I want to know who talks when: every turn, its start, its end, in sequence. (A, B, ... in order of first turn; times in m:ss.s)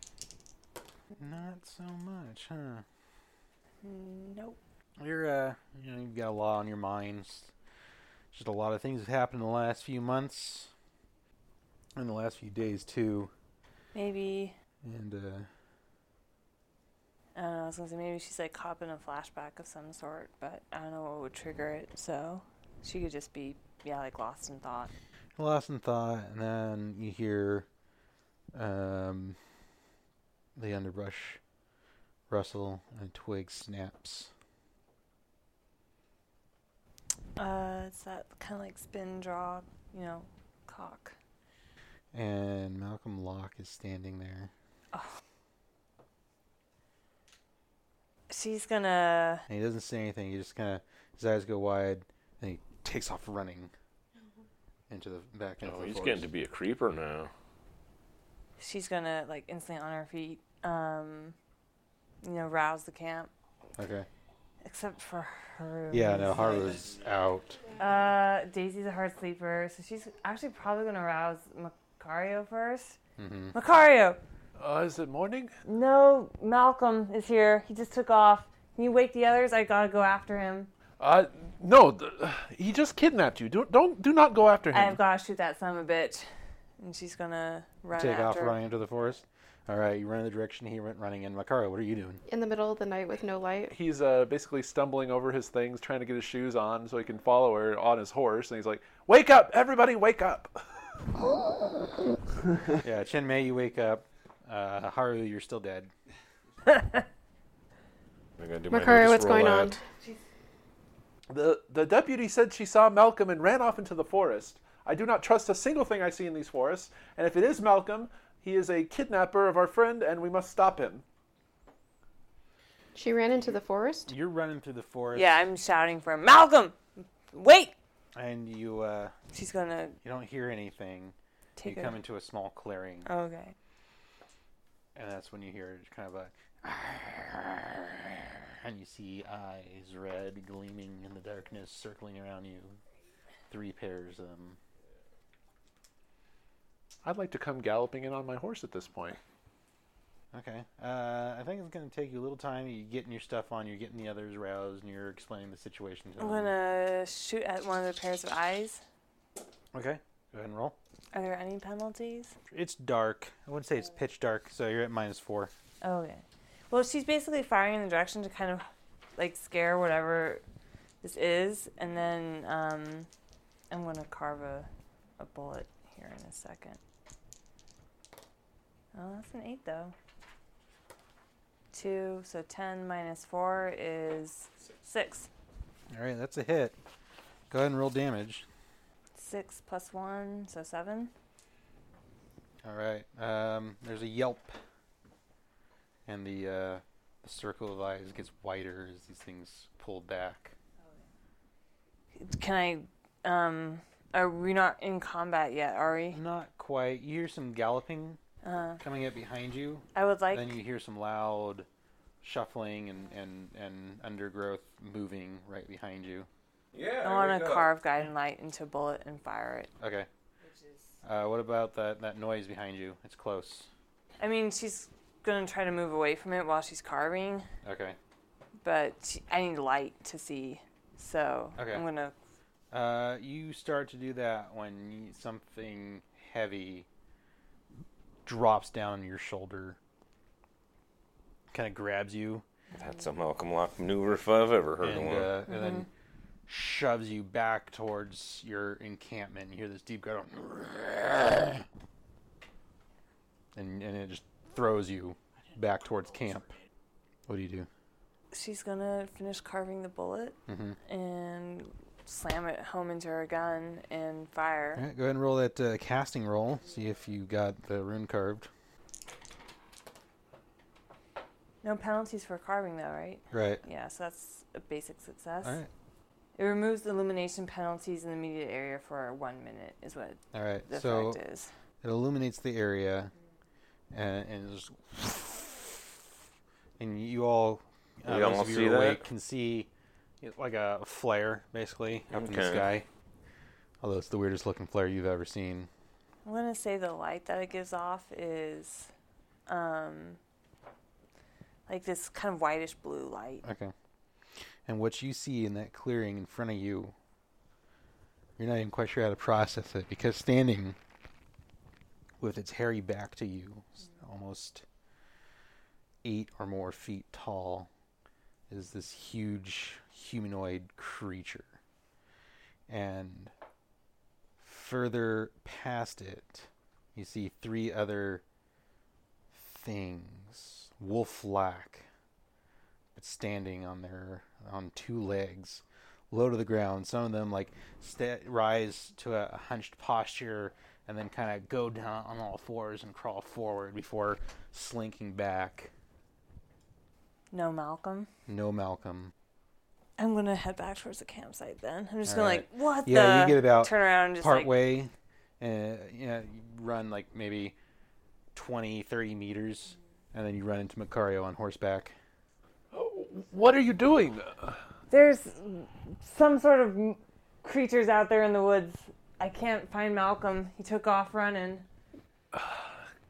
0:01.2-0:02.8 A
0:03.8-0:04.6 B
0:05.0-0:07.5 A
0:08.3-0:10.7 A
0:11.9-0:13.3 A
0:13.9-0:14.6 B
0:14.8-0:15.5 A
0:17.3-0:24.9 B
0:25.4-0:27.7 A
0:28.5-0:29.4 A
0:30.6-0:31.4 A
0:32.3-0:34.3 A
0:37.4-0:41.1 B
0:42.1-0:44.5 A
0:48.3-0:49.4 B
0:49.5-0:53.7 A
0:54.9-0:56.3 A
0:55.6-0:57.3 C
0:58.6-1:01.4 B
1:02.2-1:03.3 B
1:03.8-1:04.1 A
1:04.6-1:06.9 B
1:05.9-1:07.7 A
1:07.8-1:13.0 B
1:13.2-1:13.5 A
1:13.5-1:14.2 B
1:14.6-1:15.5 D
1:15.6-1:20.7 B
1:21.0-1:25.0 D
1:24.7-1:26.2 B
1:26.8-1:28.6 B
1:28.0-1:32.2 A
1:32.3-1:33.7 E
1:33.7-1:40.6 D
1:42.7-1:45.9 A
1:48.4-1:49.8 C
1:48.7-1:49.8 E
1:51.3-2:01.0 D
2:02.9-2:04.1 E
2:04.1-2:05.4 A
2:05.1-2:07.7 B
2:08.1-2:09.1 A
2:09.3-2:10.0 B
2:10.0-2:13.1 A
2:11.6-2:12.0 B
2:13.0-2:13.5 B
2:14.9-2:22.8 A
2:23.5-2:24.6 A
2:27.0-2:29.2 D
2:30.3-2:36.5 A
2:36.2-2:38.8 B
2:39.7-2:40.8 A
2:41.1-2:42.3 B
2:42.5-2:45.5 A
2:45.8-2:50.4 B
2:51.0-2:53.1 B
2:53.7-2:56.8 B
2:58.9-2:59.9 B
3:01.7-3:05.3 B
3:05.9-3:06.8 A
3:07.5-3:08.4 A
3:09.2-3:11.1 B
3:12.6-3:14.6 A
3:16.0-3:20.5 A
3:22.2-3:26.2 B
3:26.1-3:28.2 A
3:28.4-3:28.8 B
3:28.8-3:31.7 A
3:29.9-3:30.6 B
3:32.2-3:36.3 A
3:36.7-3:37.7 C
3:37.0-3:39.7 B
3:39.8-3:40.1 A
3:40.4-3:41.0 B
3:41.0-3:43.7 A
3:44.2-3:47.4 B
3:47.6-3:48.0 A
3:48.6-3:52.1 B
3:51.6-3:51.8 A
3:52.7-3:56.9 A
3:58.2-3:59.8 A
4:01.5-4:02.4 A
4:02.8-4:05.3 C
4:04.8-4:05.9 A
4:05.5-4:05.8 B
4:06.5-4:11.6 A
4:13.5-4:16.5 A
4:17.3-4:17.7 A
4:18.3-4:24.8 B
4:20.5-4:20.8 A
4:24.8-4:28.5 A
4:31.6-4:35.6 B
4:33.3-4:33.6 A
4:35.4-4:35.7 A
4:36.4-4:41.5 B
4:40.3-4:41.2 A
4:41.8-4:43.1 A
4:43.9-4:46.0 A
4:46.8-4:49.7 A
4:48.0-4:49.0 C
4:50.2-4:52.9 A
4:52.1-4:52.6 C
4:53.8-4:55.7 A
4:56.2-4:58.9 B
4:59.5-5:00.2 B
5:01.7-5:03.4 B
5:03.4-5:03.7 A
5:04.6-5:06.9 A
5:08.4-5:10.8 A
5:12.2-5:14.6 A
5:16.0-5:17.7 A
5:18.5-5:21.6 A
5:22.7-5:23.3 A
5:24.4-5:28.2 A
5:29.3-5:31.9 A
5:32.9-5:45.7 A
5:47.3-5:48.1 B
5:48.3-5:49.1 A
5:50.0-5:54.5 B
5:52.0-5:57.5 A
5:58.3-6:01.9 A
6:02.7-6:04.6 D
6:04.9-6:11.6 B
6:12.3-6:12.8 D